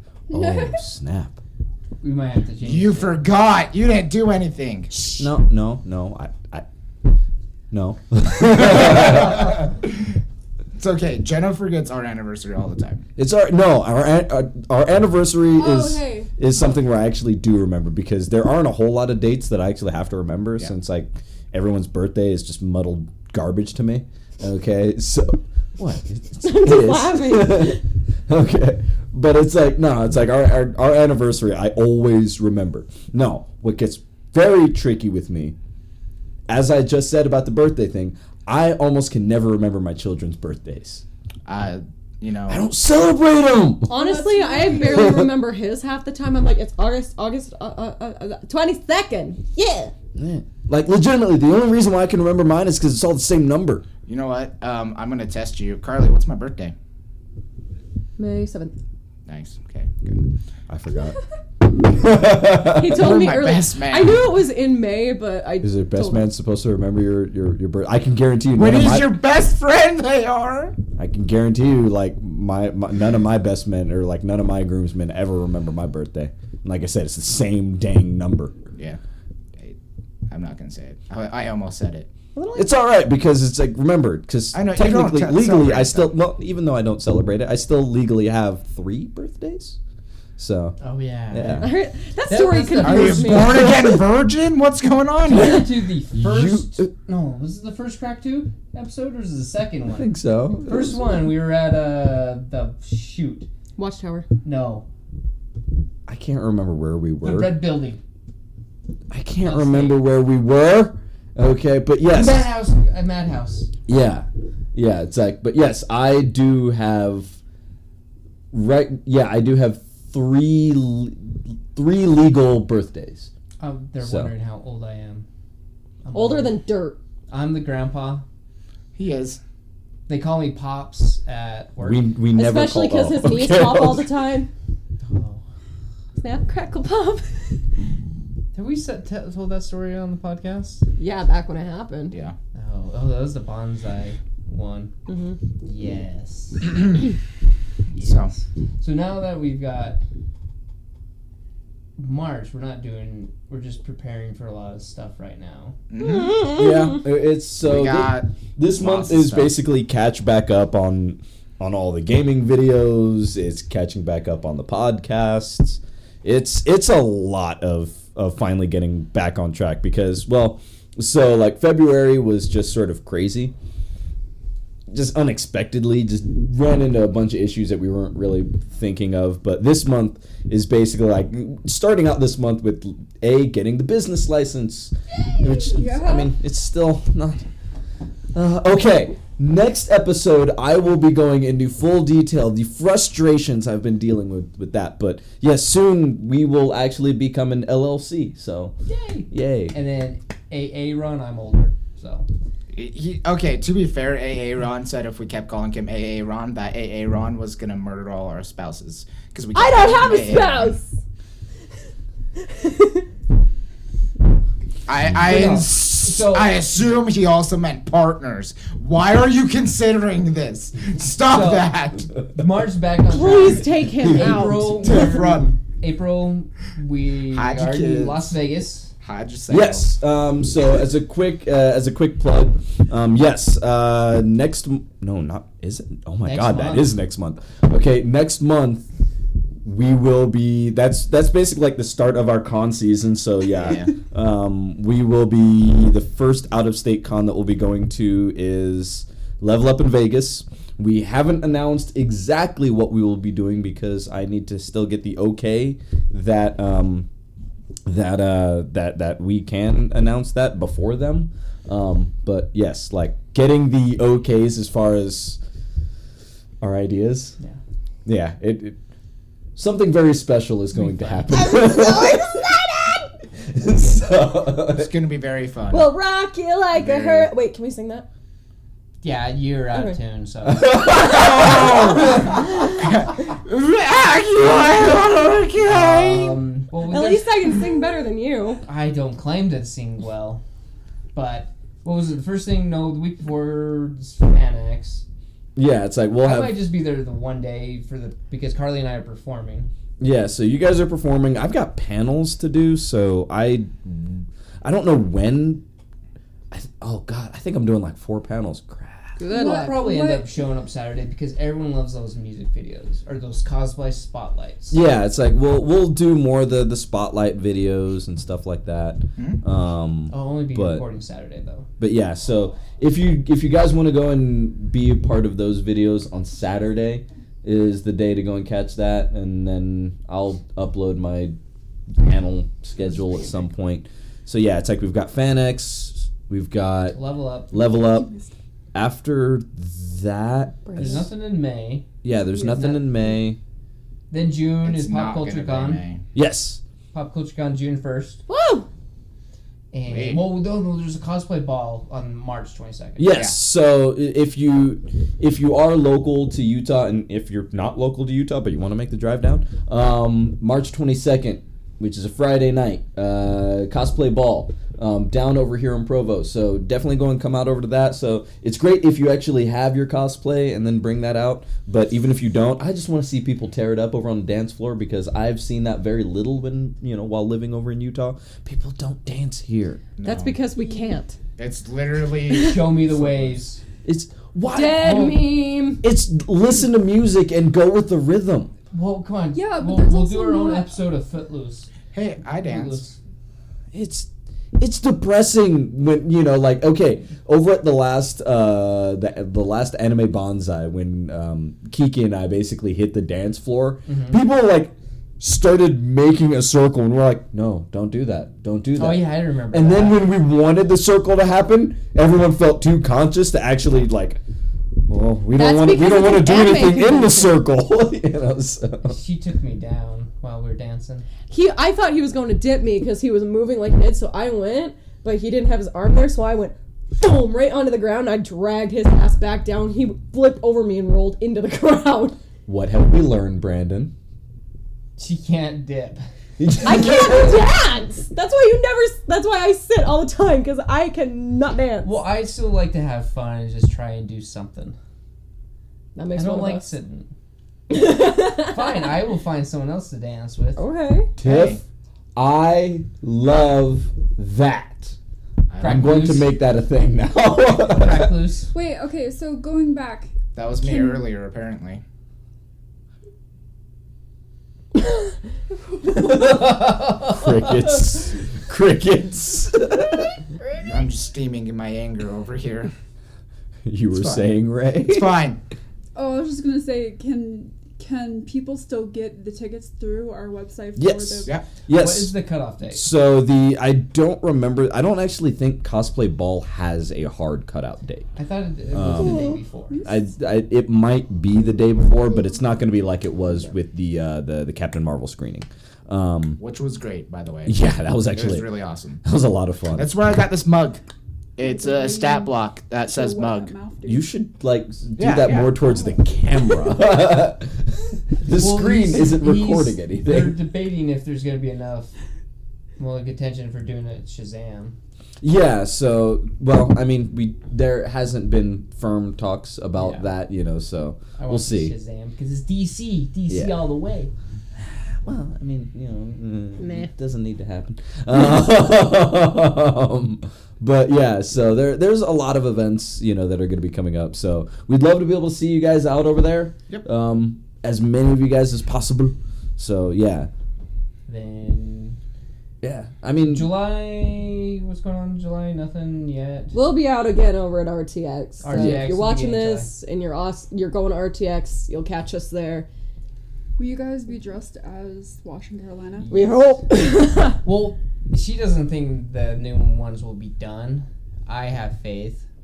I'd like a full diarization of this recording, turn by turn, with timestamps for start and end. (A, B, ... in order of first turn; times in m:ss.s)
0:00.3-0:01.4 A
0:00.3-0:00.8 B
0:02.0-0:03.2 C
0:02.6-0:05.1 D
0:05.2-0:06.6 A
0:07.7-0:09.6 A
0:08.5-0:10.2 D
0:10.8-0:13.0 D
0:13.2-0:35.6 A
0:15.5-0:16.3 B
0:26.4-0:27.8 E
0:36.5-0:41.0 A
0:41.5-0:42.6 D
0:42.5-0:43.9 A
0:43.9-0:45.2 B
0:43.9-0:49.9 E
0:44.8-0:45.3 A
0:50.2-0:53.8 A
0:54.1-0:56.7 D
0:58.2-0:58.8 E
0:59.3-1:00.3 D
1:00.7-1:01.2 A
1:01.8-1:03.2 A
1:02.7-1:06.3 E
1:02.9-1:04.3 D
1:05.6-1:09.2 A
1:08.5-1:10.8 D
1:11.0-1:18.6 A
1:18.7-1:19.0 D
1:20.3-1:22.1 D
1:22.4-1:22.7 E
1:22.6-1:29.8 A
1:24.5-1:26.1 D
1:30.4-1:30.8 A
1:30.8-1:31.7 C
1:31.3-1:31.7 A
1:31.6-1:34.0 E
1:32.3-1:33.7 C
1:32.8-1:35.7 D
1:35.2-1:40.1 C
1:36.1-1:36.9 A
1:39.9-1:41.0 A
1:40.6-1:43.5 C
1:43.8-1:44.3 E
1:44.4-1:44.9 C
1:46.1-1:47.6 A
1:47.2-1:48.0 C
1:49.1-1:52.5 A
1:49.4-1:50.0 C
1:52.1-1:53.7 C
1:53.9-1:57.4 A
1:58.5-2:03.3 A
2:03.6-2:05.3 C
2:04.0-2:04.3 A
2:06.0-2:06.6 C
2:06.1-2:07.0 E
2:07.3-2:08.2 C
2:09.0-2:09.4 D
2:10.1-2:12.0 C
2:11.8-2:14.1 A
2:12.4-2:14.5 E
2:15.0-2:15.4 C
2:16.2-2:17.7 E
2:18.5-2:20.9 C
2:21.0-2:22.2 E
2:22.1-2:22.4 D
2:22.6-2:24.9 C
2:25.1-2:25.4 E
2:25.6-2:27.0 C
2:27.9-2:30.0 C
2:28.0-2:28.3 D
2:32.0-2:35.8 C
2:35.9-2:36.5 D
2:36.0-2:37.0 E
2:36.5-2:53.5 A
2:37.6-2:39.6 D
2:54.9-3:07.4 A
3:05.4-3:06.3 B
3:08.3-3:18.7 A
3:18.9-3:22.3 C
3:19.3-3:19.8 A
3:22.8-3:30.8 D
3:29.6-3:31.0 E
3:32.4-3:33.1 E
3:34.9-3:42.1 D
3:35.2-3:35.6 A
3:35.2-3:36.6 C
3:41.2-3:41.7 C
3:42.3-3:48.9 C
3:43.1-3:44.8 E
3:44.0-3:44.6 A
3:44.5-3:45.6 D
3:47.3-3:48.3 D
3:49.0-3:49.9 D
3:49.5-3:58.9 A
3:56.2-3:56.9 C
3:59.6-4:17.1 A
4:03.6-4:03.9 D
4:17.9-4:25.4 A
4:26.6-4:27.4 A
4:28.1-4:28.8 A
4:29.6-4:32.5 A
4:30.7-4:31.6 C
4:31.3-4:33.1 E
4:33.4-4:34.9 A
4:34.7-4:35.9 D
4:35.7-4:38.1 E
4:36.7-4:37.3 D
4:39.0-4:40.8 C
4:40.4-4:42.4 A
4:41.1-4:46.4 D
4:45.6-4:47.6 C
4:46.9-4:48.6 E
4:48.6-4:50.4 C
4:51.1-4:55.0 C
4:55.6-4:56.6 A
4:56.2-4:59.7 C
5:00.0-5:05.6 A
5:06.5-5:09.2 A
5:09.2-5:09.8 E
5:09.3-5:10.3 B
5:09.3-5:14.8 C
5:14.7-5:20.8 A
5:20.1-5:21.7 C
5:21.8-5:31.4 A
5:32.0-5:37.0 A
5:36.9-5:37.6 C
5:37.5-5:38.1 A
5:37.7-5:38.3 B
5:38.7-5:41.1 A
5:40.7-5:41.1 E
5:40.8-5:41.9 C
5:42.0-5:43.4 A
5:42.4-5:42.9 C
5:44.1-5:45.8 C
5:44.6-5:46.0 D
5:46.2-5:46.6 A
5:46.9-5:48.2 C
5:48.3-5:48.7 E
5:49.7-5:53.1 C
5:49.9-5:50.2 D
5:53.0-6:19.8 A
6:20.0-6:20.4 D
6:20.0-6:21.2 E
6:21.4-6:23.4 D
6:22.3-6:22.6 E
6:22.3-6:23.6 C
6:23.8-6:25.2 A
6:24.5-6:25.8 E
6:24.8-6:25.2 C
6:25.8-6:28.5 A
6:28.7-6:31.7 C
6:29.3-6:30.8 B
6:31.9-6:32.8 D
6:32.4-6:33.0 C
6:33.7-6:54.2 A
6:43.9-6:44.2 C
6:48.8-6:50.1 C
6:54.8-6:59.0 A
6:55.3-6:57.4 E
6:58.9-7:01.1 C
7:01.3-7:12.2 E
7:12.5-7:13.9 A
7:15.0-7:16.1 C
7:16.4-7:17.4 A
7:16.6-7:21.9 E
7:21.8-7:24.8 C
7:26.0-7:26.7 E
7:26.2-7:27.1 C
7:27.7-7:28.8 E
7:28.0-7:30.6 C
7:30.6-7:31.1 E
7:31.2-7:31.6 A
7:31.2-7:31.6 D
7:32.2-7:35.0 A
7:35.5-7:36.0 D
7:35.6-7:36.3 C
7:35.6-7:38.1 A
7:37.6-7:38.5 C
7:38.5-7:41.1 B
7:40.4-7:41.8 D
7:45.9-7:47.2 C
7:46.1-7:46.4 A
7:47.0-7:50.2 A
7:50.6-7:52.7 D
7:53.7-7:55.1 A
7:53.9-7:54.3 D
7:54.8-7:55.4 D
7:56.0-8:01.3 B
8:00.8-8:02.1 A
8:01.7-8:02.9 C
8:02.7-8:08.1 A
8:08.2-8:09.8 C
8:08.7-8:09.3 A
8:09.0-8:09.4 E
8:09.7-8:10.0 B
8:09.8-8:16.4 A
8:16.4-8:17.6 D
8:17.5-8:18.5 A
8:18.1-8:19.0 D
8:19.0-8:19.9 A
8:19.7-8:20.8 D
8:21.4-8:23.5 D
8:21.4-8:22.3 B
8:22.8-8:24.1 B
8:23.9-8:30.4 A
8:25.0-8:25.5 D
8:28.3-8:32.0 C
8:32.8-8:34.8 C
8:35.2-8:41.7 A
8:39.8-8:40.1 C
8:41.2-8:44.1 C
8:43.3-8:43.6 A
8:44.6-9:00.3 A
8:46.6-8:46.9 E
9:01.1-9:02.0 C
9:02.6-9:03.5 A
9:03.3-9:06.6 C
9:06.5-9:12.7 E
9:08.4-9:09.7 C
9:08.5-9:08.9 A
9:13.6-9:16.1 B
9:16.0-9:16.5 C
9:16.1-9:17.4 E
9:17.4-9:22.3 C